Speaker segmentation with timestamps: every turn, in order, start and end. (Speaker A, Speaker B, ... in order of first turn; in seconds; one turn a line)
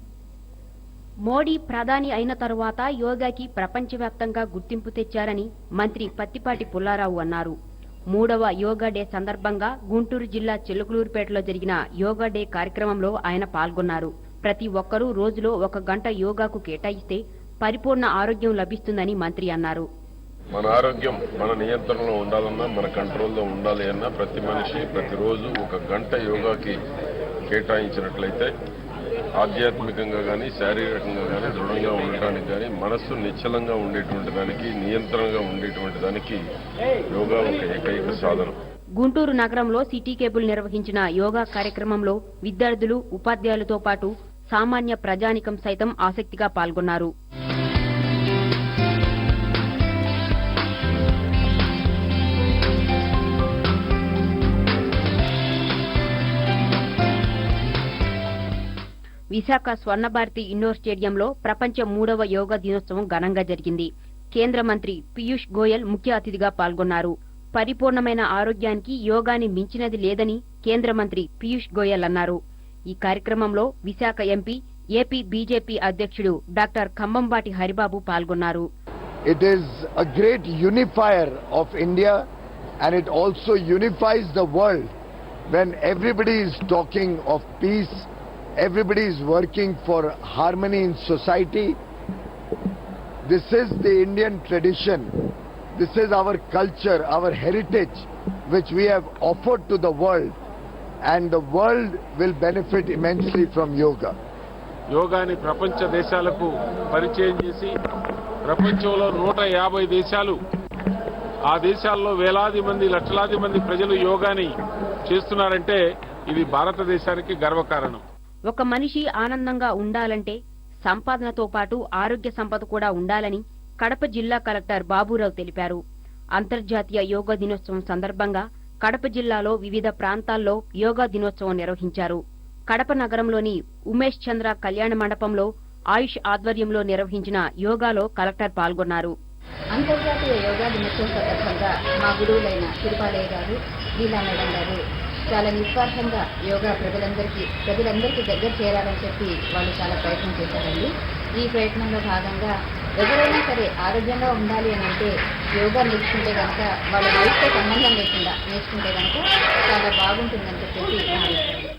Speaker A: 1.3-7.6
Speaker A: 8.1-19.9
Speaker B: 20.5-26.8
Speaker B: 27.5-28.5
Speaker B: 29.4-36.4
Speaker B: 37.1-38.6
Speaker A: 39.0-47.1
Speaker A: 59.3-72.4
Speaker A: 72.9-78.7
Speaker C: 79.3-82.3
Speaker C: 82.8-84.9
Speaker C: 85.5-91.8
Speaker C: 93.2-95.1
Speaker C: 95.8-100.4
Speaker C: 101.0-104.2
Speaker D: 104.9-107.7
Speaker D: 108.5-110.4
Speaker D: 111.5-114.5
Speaker D: 115.1-118.0
Speaker A: 118.5-125.8
Speaker A: 126.4-139.1
Speaker E: 139.8-161.7